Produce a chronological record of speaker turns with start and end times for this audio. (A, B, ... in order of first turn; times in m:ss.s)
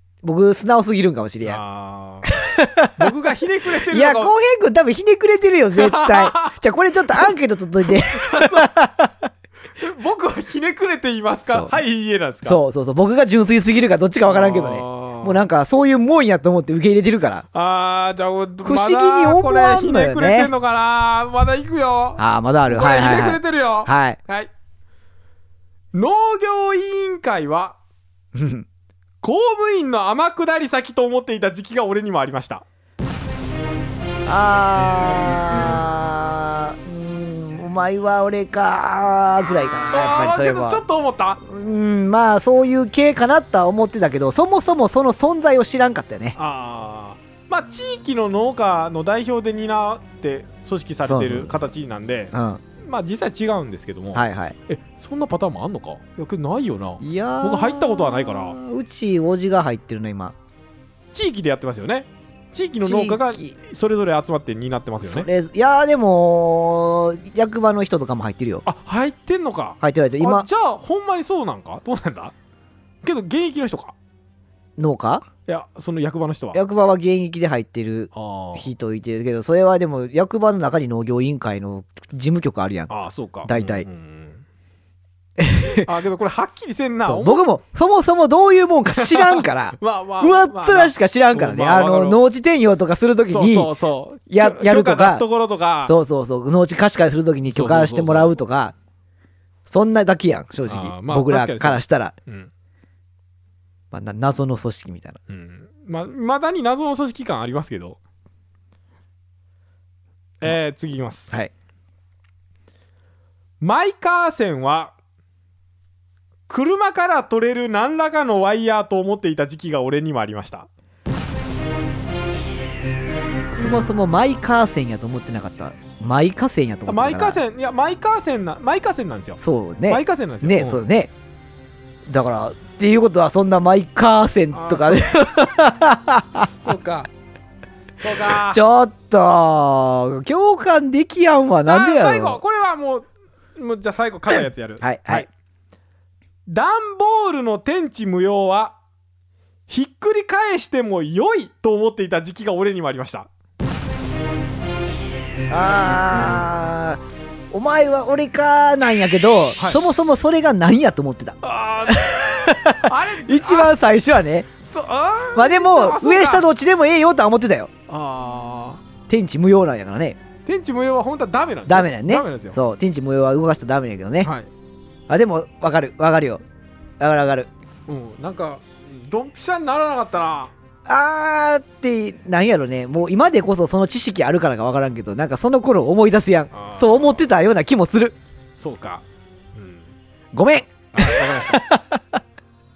0:00.2-0:01.6 A
0:01.4-0:04.3 B
0:02.3-0:03.2 A
0:03.7-0:09.3 A
0:05.8-0:06.6 B
0:07.9-0:08.8 B
0:09.8-0:12.6 B
0:11.5-0:11.8 A
0:12.4-0:17.5 A
0:14.3-0:15.4 B
0:17.5-0:24.5 B
0:18.6-0:20.5 A
0:22.2-0:24.2 A
0:25.9-0:27.8 B
0:28.3-0:28.7 A
0:29.2-0:32.6 B
0:34.2-0:40.8 A
0:39.9-0:41.4 B
0:41.4-0:46.4 A
0:46.4-0:58.6 B
0:51.0-0:51.5 A
0:52.3-0:52.6 A
0:54.1-0:54.6 A
0:57.0-1:00.4 A
1:01.1-1:05.3 B
1:02.8-1:03.5 A
1:05.0-1:08.6 A
1:08.6-1:12.3 B
1:09.8-1:10.5 A
1:13.0-1:14.0 B
1:14.8-1:15.3 A
1:15.5-1:16.6 B
1:16.5-1:22.9 A
1:18.1-1:18.7 B
1:22.9-1:24.4 B
1:23.4-1:23.9 A
1:25.4-1:25.9 A
1:25.8-1:27.5 B
1:27.0-1:33.7 A
1:29.0-1:32.2 B
1:33.3-1:36.0 B
1:34.3-1:35.3 A
1:35.8-1:38.8 A
1:37.5-1:38.3 B
1:39.7-1:42.1 A
1:40.7-1:42.5 B
1:43.9-1:45.2 A
1:45.3-1:48.0 B
1:50.4-1:51.3 B
1:53.6-1:54.9 B
1:56.5-2:00.7 B
2:03.5-2:07.4 A
2:06.9-2:10.8 B
2:09.4-2:11.1 A
2:12.1-2:16.5 A
2:14.5-2:15.5 B
2:16.5-2:17.1 B
2:18.0-2:18.6 B
2:18.2-2:22.4 A
2:21.7-2:25.3 B
2:24.3-2:25.3 A
2:26.5-2:28.8 B
2:29.7-2:33.3 B
2:35.5-2:44.5 A
2:41.4-2:43.8 B
2:44.6-2:46.5 B
2:45.4-2:47.7 A
2:47.9-2:48.8 B
2:49.1-2:50.2 A
2:50.5-2:52.6 B
2:51.7-2:54.3 A
2:54.2-2:54.5 B
2:55.1-2:56.4 A
2:57.0-2:57.5 A
2:57.9-3:00.5 B
3:00.9-3:08.2 A
3:06.5-3:07.2 B
3:08.6-3:09.9 B
3:10.3-3:12.2 A
3:10.9-3:11.6 B